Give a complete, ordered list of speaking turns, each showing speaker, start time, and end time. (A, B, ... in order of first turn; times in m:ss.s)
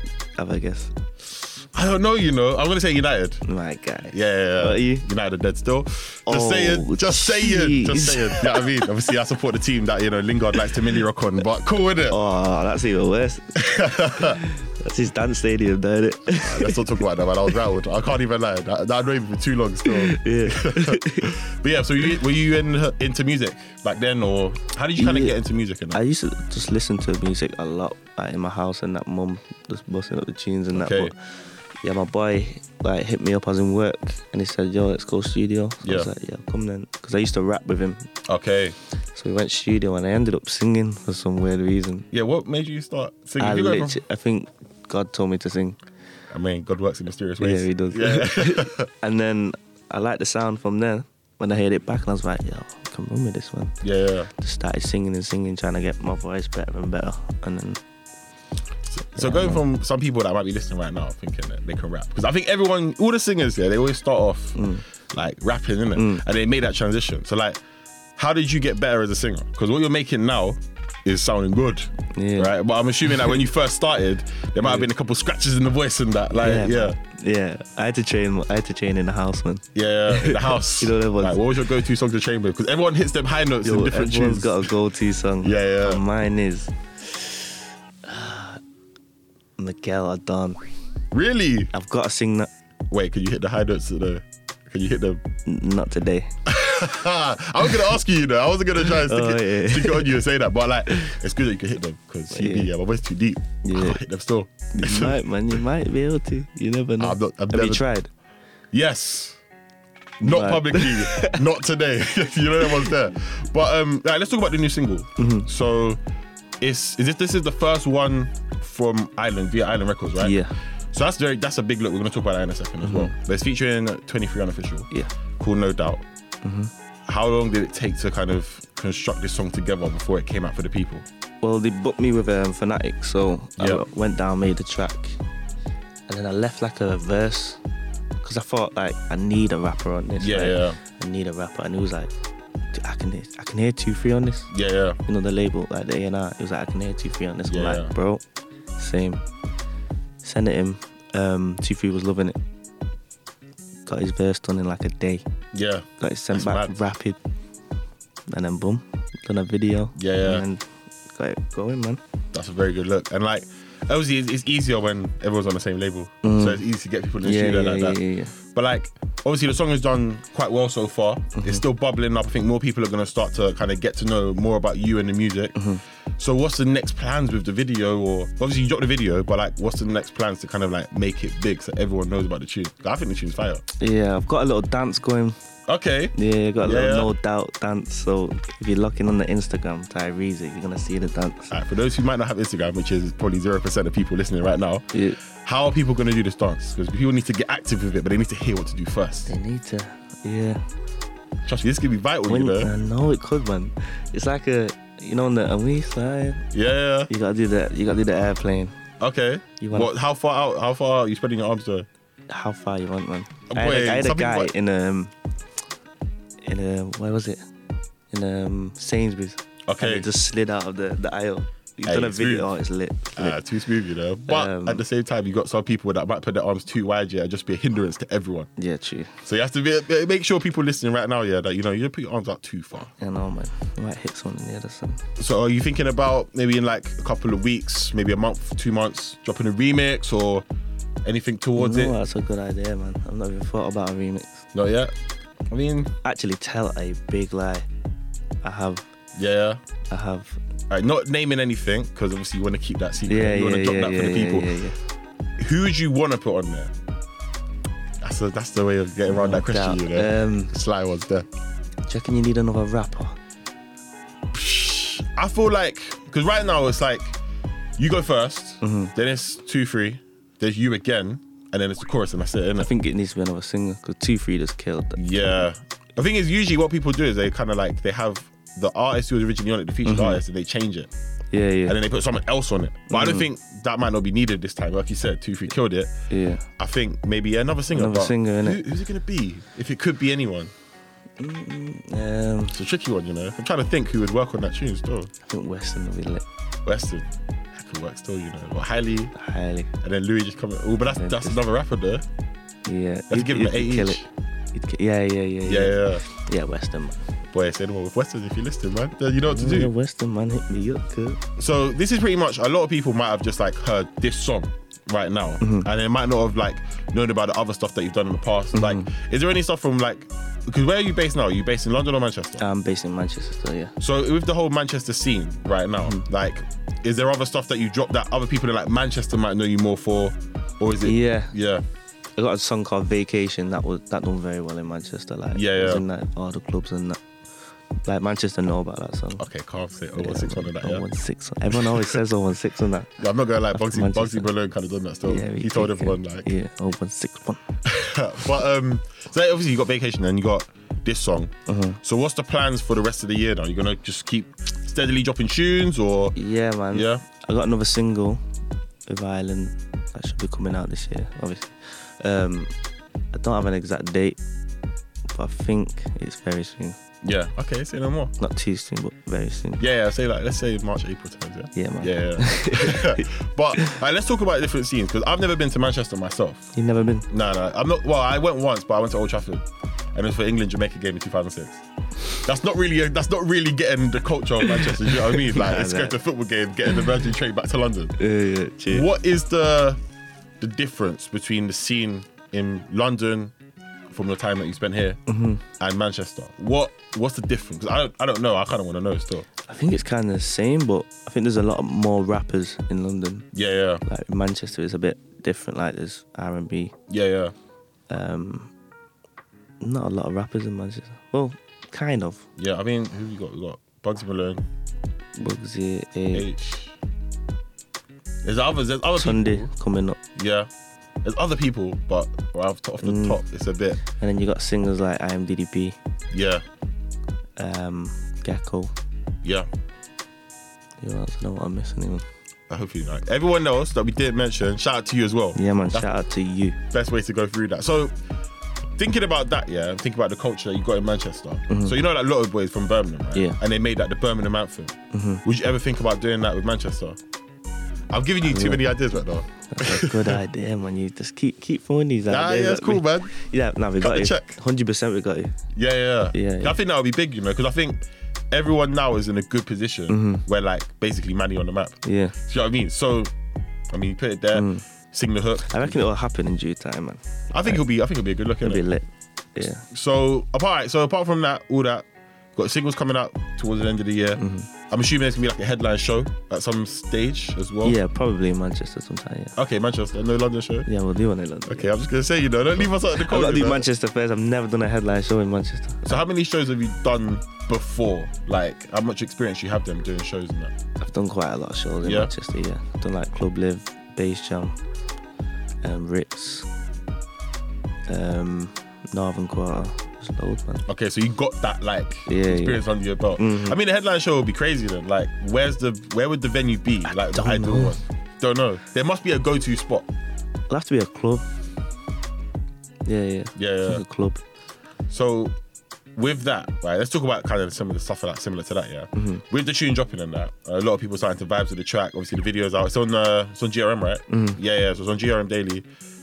0:00.4-0:00.9 A
0:01.7-0:03.4 B
0:03.4-0:05.0 A
0:04.1-0:12.2 B
0:06.3-0:08.8 A
0:12.1-0:16.8 A
0:13.6-0:14.4 B
0:16.4-0:26.0 B
0:19.8-0:21.3 A
0:25.0-0:25.4 A
0:25.9-0:31.2 A
0:30.8-0:31.1 B
0:31.8-0:38.1 A
0:35.8-0:36.1 B
0:38.3-0:38.8 B
0:39.2-0:42.1 A
0:42.1-0:44.0 B
0:43.4-0:45.8 A
0:46.3-0:48.9 B
0:47.4-0:53.8 A
0:53.8-0:54.3 B
0:54.4-0:57.8 A
0:58.9-1:07.6 B
0:59.2-0:59.6 A
1:04.6-1:04.8 A
1:06.0-1:06.2 A
1:08.2-1:17.0 B
1:12.2-1:12.5 A
1:14.6-1:14.9 A
1:16.3-1:21.6 A
1:19.8-1:24.7 B
1:23.6-1:26.7 A
1:25.4-1:26.0 B
1:28.0-1:28.6 A
1:29.6-1:30.6 A
1:31.1-1:31.7 B
1:31.7-1:32.5 A
1:32.9-1:35.2 B
1:35.5-1:36.3 A
1:36.5-1:45.2 B
1:38.8-1:40.2 A
1:42.3-1:42.7 A
1:43.6-1:44.0 A
1:44.7-1:48.1 A
1:47.0-1:47.8 B
1:48.7-1:49.4 B
1:50.2-1:56.0 B
1:50.2-1:51.4 A
1:55.2-1:55.5 A
1:56.6-2:06.0 B
2:00.2-2:00.5 A
2:02.8-2:03.1 A
2:06.4-2:06.7 A
2:07.1-2:11.1 B
2:11.4-2:15.2 A
2:13.6-2:13.8 B
2:16.1-2:17.6 A
2:18.2-2:22.1 A
2:20.2-2:20.8 B
2:22.7-2:24.5 A
2:24.5-2:25.0 B
2:25.1-2:28.2 A
2:27.5-2:27.9 B
2:28.8-2:29.2 A
2:30.2-2:32.4 A
2:33.9-2:35.2 A
2:35.5-2:36.8 B
2:36.0-2:37.2 A
2:38.3-2:42.0 A
2:40.0-2:40.4 B
2:42.3-2:48.0 B
2:46.2-2:46.6 A
2:47.2-2:48.4 A
2:48.5-2:55.6 B
2:51.4-2:51.6 A
2:55.6-2:55.8 A
2:56.2-3:03.6 B
3:03.8-3:05.4 A
3:05.7-3:07.1 B
3:06.2-3:11.5 A
3:11.5-3:14.8 B
3:14.9-3:15.2 A
3:15.4-3:19.3 B
3:19.3-3:20.6 A
3:21.4-3:22.7 B
3:22.3-3:26.4 A
3:26.5-3:27.1 B
3:27.1-3:28.7 A
3:29.0-3:31.9 B
3:29.6-3:29.9 A
3:32.3-3:35.1 A
3:33.5-3:34.5 B
3:36.4-3:37.4 A
3:38.1-3:43.4 A
3:39.7-3:40.1 B
3:41.9-3:42.5 B
3:43.2-3:48.5 B
3:44.2-3:44.8 A
3:48.6-3:49.1 A
3:49.2-3:52.9 B
3:52.9-3:55.0 A
3:55.2-4:00.4 B
4:01.0-4:02.0 B
4:01.6-4:04.5 A
4:04.5-4:04.9 B
4:05.5-4:05.9 B
4:06.0-4:07.7 A
4:08.4-4:08.9 A
4:09.2-4:09.6 B
4:09.9-4:10.4 A
4:10.7-4:14.5 B
4:13.1-4:14.8 A
4:15.4-4:16.7 B
4:18.0-4:21.3 B
4:19.1-4:20.5 A
4:21.9-4:23.2 A
4:24.3-4:27.2 B
4:27.8-4:32.7 B
4:28.6-4:28.9 A
4:32.6-4:35.2 A
4:35.0-4:40.9 B
4:39.8-4:40.2 A
4:41.3-4:41.8 A
4:41.7-4:45.9 B
4:42.9-4:43.3 A
4:46.1-4:46.4 A
4:46.6-4:50.5 B
4:47.7-4:48.6 A
4:51.2-4:52.6 A
4:52.5-4:55.1 B
4:55.2-4:56.2 A
4:56.7-4:59.2 B
4:59.2-4:59.7 A
4:59.8-5:02.0 B
5:00.9-5:01.4 A
5:02.7-5:07.0 A
5:03.1-5:04.1 B
5:05.4-5:06.0 B
5:07.3-5:09.7 B
5:09.3-5:11.2 A
5:11.4-5:22.4 B
5:15.4-5:15.7 A
5:18.5-5:18.9 A
5:22.4-5:23.8 A
5:23.8-5:31.6 B
5:30.8-5:31.3 A
5:32.2-5:37.0 A
5:35.3-5:35.8 B
5:37.8-5:39.2 A
5:39.2-5:40.8 B
5:40.0-5:43.0 A
5:41.5-5:42.0 B
5:43.0-5:46.3 B
5:43.5-5:44.3 A
5:45.0-5:47.4 A
5:47.7-5:51.3 B
5:51.5-5:51.8 A
5:51.8-5:56.2 B
5:56.2-5:58.2 A
5:56.7-5:57.0 B
5:58.9-6:02.5 A
6:03.1-6:04.2 A
6:05.1-6:06.8 A
6:07.0-6:08.1 B
6:08.2-6:09.6 A
6:09.6-6:16.5 B
6:11.5-6:13.7 A
6:16.6-6:17.1 A
6:17.1-6:21.6 B
6:22.2-6:28.0 B
6:24.4-6:26.0 A
6:28.0-6:28.9 A
6:28.7-6:29.8 B
6:30.4-6:33.3 B
6:33.9-6:35.0 B
6:35.1-6:35.4 A
6:35.6-6:39.3 B
6:39.5-6:43.3 A
6:43.3-6:43.8 B
6:43.8-6:46.8 A
6:46.9-6:47.3 B
6:47.9-6:48.5 A
6:49.6-6:52.2 A
6:52.4-6:54.4 B
6:55.2-6:56.3 A
6:56.1-6:56.8 B
6:58.2-6:59.5 B
6:59.0-7:00.0 A
7:00.2-7:00.5 B
7:01.0-7:03.8 B
7:02.8-7:03.2 A
7:03.9-7:05.8 A
7:06.1-7:06.4 B
7:07.4-7:08.7 A
7:10.8-7:12.0 A
7:12.5-7:16.0 B
7:15.4-7:16.6 A
7:16.7-7:17.9 B
7:18.8-7:27.0 B
7:21.5-7:21.8 A
7:23.1-7:23.4 A
7:24.9-7:25.2 A
7:27.9-7:30.2 B
7:28.2-7:28.8 A
7:29.5-7:35.3 A
7:32.1-7:33.1 B
7:33.8-7:34.3 B
7:35.6-7:43.1 B
7:36.1-7:36.6 A
7:39.9-7:40.2 A
7:41.8-7:42.2 A
7:43.7-7:45.9 B
7:44.3-7:44.6 A
7:45.4-7:47.6 A
7:47.3-7:48.6 B
7:48.4-7:49.6 A
7:49.6-7:57.8 B
7:54.2-7:54.5 A
7:57.6-7:59.4 A
7:59.4-8:00.7 B
8:00.7-8:01.7 A
8:01.5-8:03.7 B
8:02.6-8:06.0 A
8:05.9-8:10.5 B
8:10.8-8:14.6 A
8:11.8-8:12.1 B
8:15.6-8:16.5 A
8:17.9-8:20.6 A
8:20.7-8:29.9 B
8:22.1-8:22.6 A
8:23.2-8:23.6 A
8:26.8-8:27.8 A
8:30.5-8:31.2 A
8:32.9-8:34.2 A
8:33.4-8:33.8 B
8:34.9-8:35.3 B
8:36.0-8:45.7 B
8:39.0-8:39.2 A
8:44.1-8:44.4 A